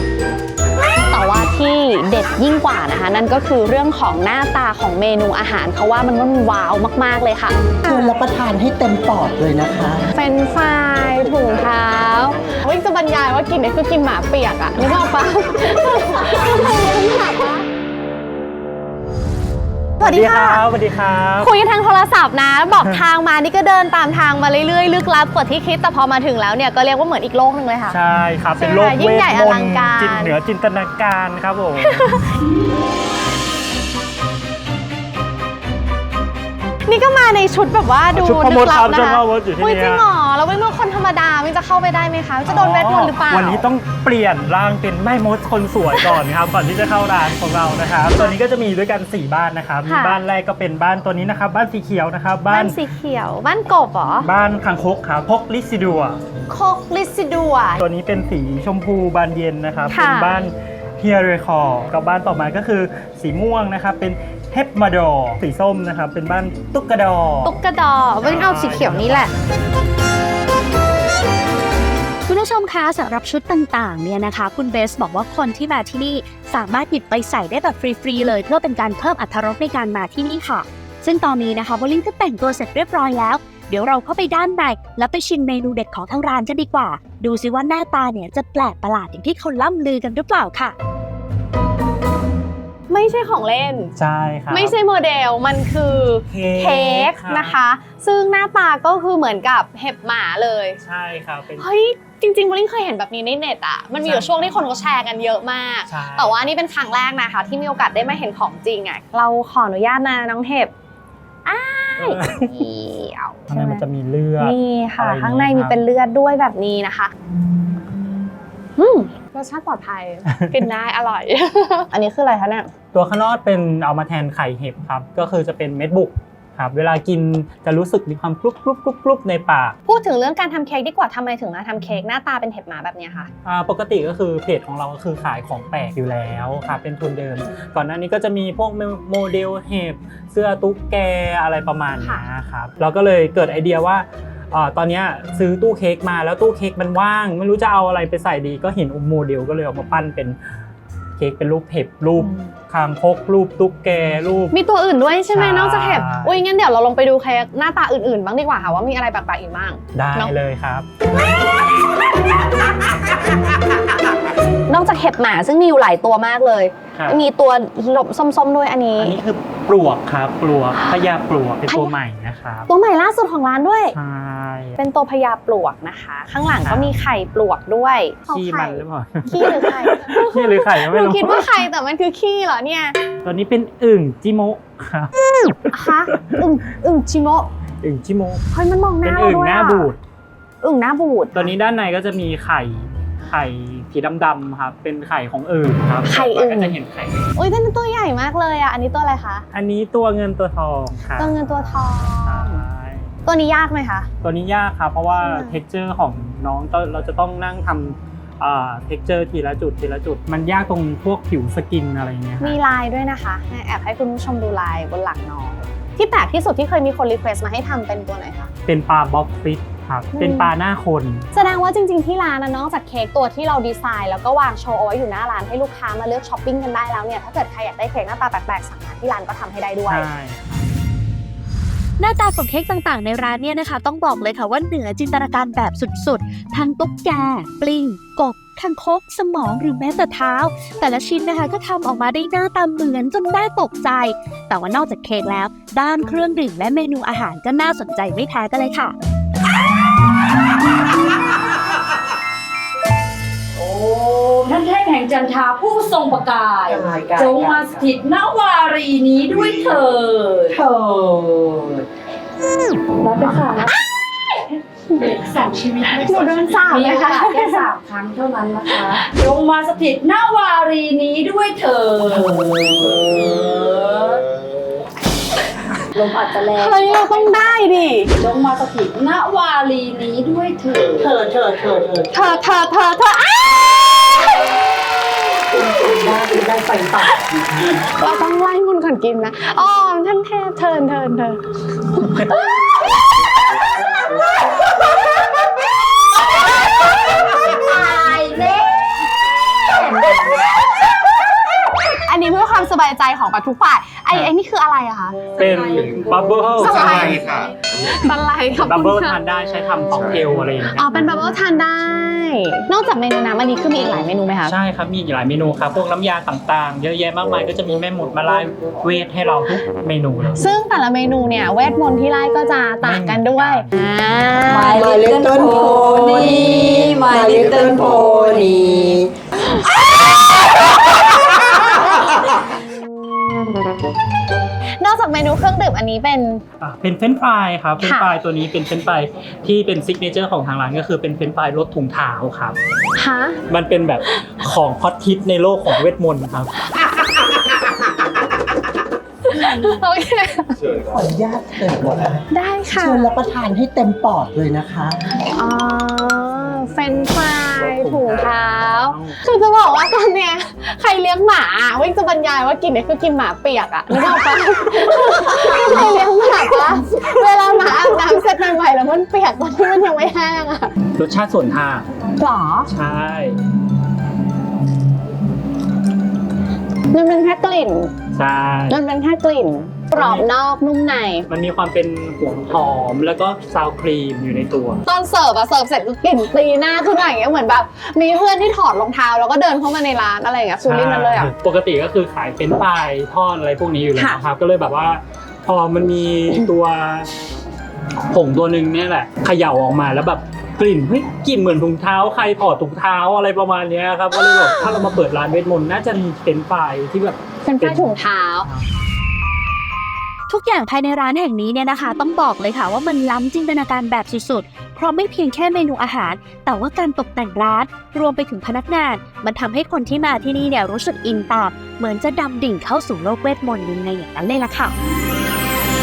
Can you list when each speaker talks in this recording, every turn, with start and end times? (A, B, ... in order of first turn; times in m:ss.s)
0:01.1-0:08.1 A
0:07.8-0:10.0 B
0:10.2-0:17.7 A
0:20.0-0:20.6 A
0:20.0-0:21.5 C
0:21.4-0:28.0 A
0:27.9-0:32.0 C
0:28.6-0:30.3 A
0:31.8-0:32.4 A
0:36.9-0:43.6 A
0:38.1-0:40.1 C
0:42.5-0:52.8 C
0:49.9-0:50.2 A
0:52.5-0:54.3 A
0:54.2-0:56.2 C
0:56.5-0:57.8 A
0:57.8-1:07.6 C
0:59.9-1:00.4 A
1:07.4-1:09.3 A
1:08.2-1:09.3 C
1:12.3-1:30.8 D
1:32.9-1:33.9 A
1:34.0-1:34.8 C
1:34.5-1:40.8 A
1:36.3-1:37.6 C
1:40.8-1:41.7 C
1:41.6-1:50.7 A
1:44.0-1:44.5 C
1:45.9-1:46.4 C
1:51.5-1:53.8 A
1:52.0-1:52.4 C
1:53.5-1:55.8 C
1:54.4-1:57.1 A
1:58.8-2:02.7 A
2:02.9-2:09.8 C
2:09.9-2:13.3 A
2:13.4-2:30.4 C
2:22.0-2:22.3 A
2:31.2-2:34.5 C
2:32.2-2:32.5 A
2:34.5-2:40.4 A
2:35.3-2:36.4 C
2:39.9-2:40.9 C
2:44.7-2:49.2 A
2:47.0-2:47.2 C
2:49.0-2:52.7 C
2:51.7-2:51.9 A
2:52.7-2:54.0 A
2:53.9-2:54.8 C
2:54.8-3:03.0 A
2:56.6-2:56.9 C
2:58.3-3:01.7 C
3:03.2-3:05.1 C
3:05.7-3:07.5 A
3:07.8-3:08.4 C
3:08.5-3:09.9 A
3:09.0-3:10.0 C
3:10.6-3:11.5 A
3:11.3-3:17.3 C
3:16.0-3:16.8 A
3:17.4-3:19.4 A
3:19.5-3:23.1 C
3:21.2-3:22.6 A
3:23.3-3:24.1 A
3:24.2-3:32.6 C
3:25.2-3:25.6 A
3:32.4-3:38.5 A
3:38.7-3:41.4 C
3:40.1-3:40.5 A
3:41.3-3:50.1 A
3:49.9-3:50.7 C
3:52.0-4:09.0 D
4:13.6-4:20.6 E
4:16.7-4:17.8 B
4:20.5-4:21.5 B
4:23.0-4:23.7 E
4:25.0-4:34.3 E
4:26.0-4:27.7 A
4:35.9-4:37.5 E
4:36.5-4:38.1 A
4:38.2-4:41.2 E
4:41.0-4:42.1 B
4:42.1-4:43.6 A
4:45.6-4:47.3 B
4:47.9-4:52.6 A
4:57.6-4:58.6 E
5:02.1-5:05.2 A
5:05.4-5:07.2 C
5:05.5-5:05.9 E
5:06.6-5:09.2 A
5:08.6-5:11.1 C
5:10.8-5:14.6 A
5:14.4-5:20.4 C
5:20.4-5:24.9 A
5:22.8-5:23.7 C
5:24.5-5:28.6 E
5:24.7-5:29.1 B
5:34.8-5:36.4 A
5:36.6-5:42.6 C
5:37.8-5:38.1 A
5:43.0-5:43.4 A
5:43.5-5:46.6 C
5:49.3-5:50.6 A
5:50.8-5:55.0 B
5:52.3-5:53.1 A
5:55.3-6:10.7 A
5:57.5-5:59.2 C
6:11.0-6:11.9 C
6:12.2-6:12.7 A
6:12.7-6:13.4 C
6:16.9-6:17.9 A
6:18.2-6:18.8 C
6:18.7-6:21.3 A
6:19.9-6:20.3 C
6:21.3-6:24.8 C
6:24.9-6:31.3 A
6:30.6-6:37.1 C
6:34.0-6:34.2 D
6:38.1-6:48.7 C
6:47.4-6:48.5 A
6:50.3-7:04.7 D